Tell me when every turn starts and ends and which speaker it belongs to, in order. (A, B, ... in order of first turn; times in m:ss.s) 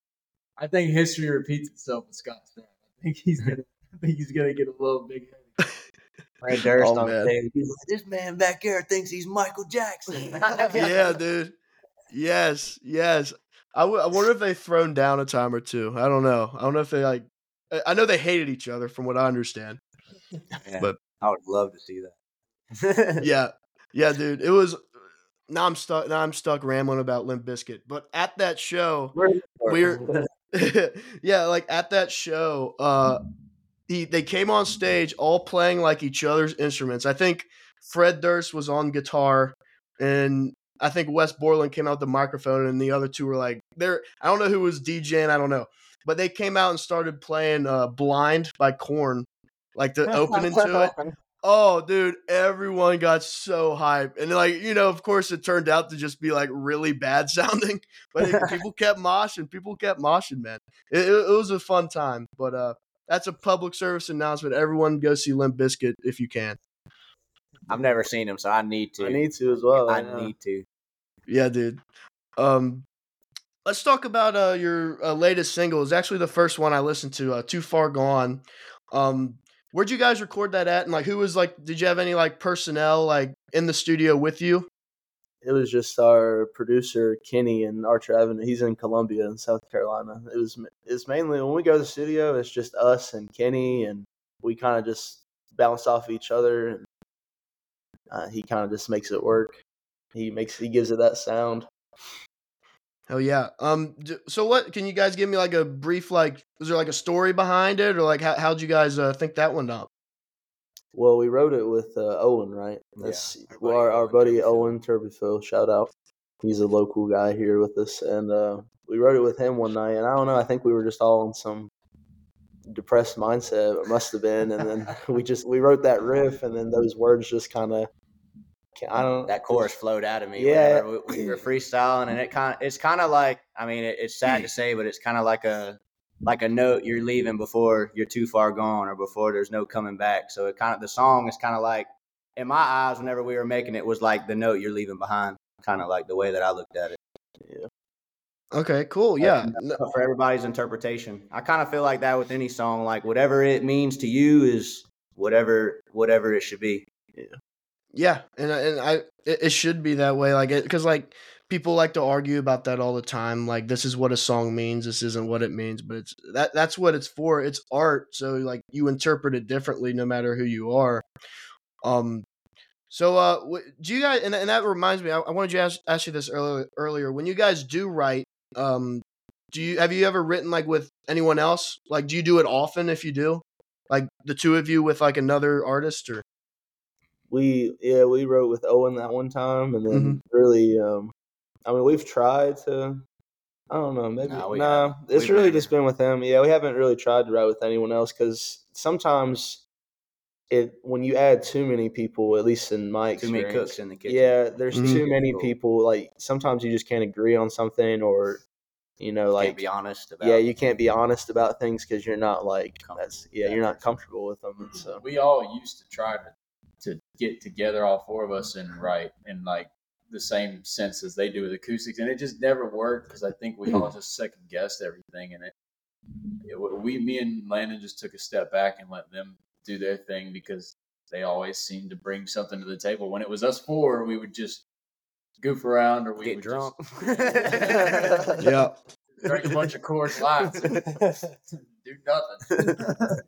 0:00.6-0:05.5 A
0:06.4-0:10.9 B
0:06.8-0:07.3 C
0:10.4-0:10.9 A
0:10.7-0:11.5 C
0:12.1-0:19.8 C
0:20.6-0:22.1 B
0:22.7-0:23.2 B
0:23.2-0:24.8 C
0:25.5-0:29.2 C
0:29.1-0:30.2 B
0:29.7-0:33.2 C
0:33.9-1:06.6 C
0:50.1-0:51.1 B
1:07.7-1:10.6 B
1:09.0-1:10.3 D
1:11.3-1:11.8 C
1:12.4-1:12.8 C
1:13.6-1:24.7 C
1:25.4-1:36.8 D
1:38.1-1:39.6 D
1:40.1-1:41.7 D
1:43.1-1:49.9 C
1:50.9-2:01.7 D
1:53.0-1:54.8 B
2:02.7-2:07.9 D
2:08.7-2:09.7 D
2:09.2-2:27.0 B
2:10.4-2:11.4 D
2:27.4-2:27.7 D
2:28.5-2:29.8 C
2:29.2-2:36.8 B
2:37.9-2:51.0 C
2:51.8-2:52.2 C
2:52.9-3:06.2 C
3:07.3-3:11.1 D
3:09.9-3:10.2 C
3:11.6-3:13.0 D
3:13.7-3:19.6 D
3:14.2-3:15.7 B
3:20.5-3:28.4 D
3:23.2-3:25.5 B
3:24.7-3:25.0 C
3:29.0-3:29.6 D
3:29.4-3:30.4 B
3:30.2-3:35.0 D
3:32.8-3:33.8 B
3:34.9-3:45.5 A
3:46.4-3:54.6 A
3:55.4-3:58.2 A
3:56.2-3:58.4 B
3:58.4-3:58.7 C
3:59.2-4:00.7 A
4:01.5-4:02.8 A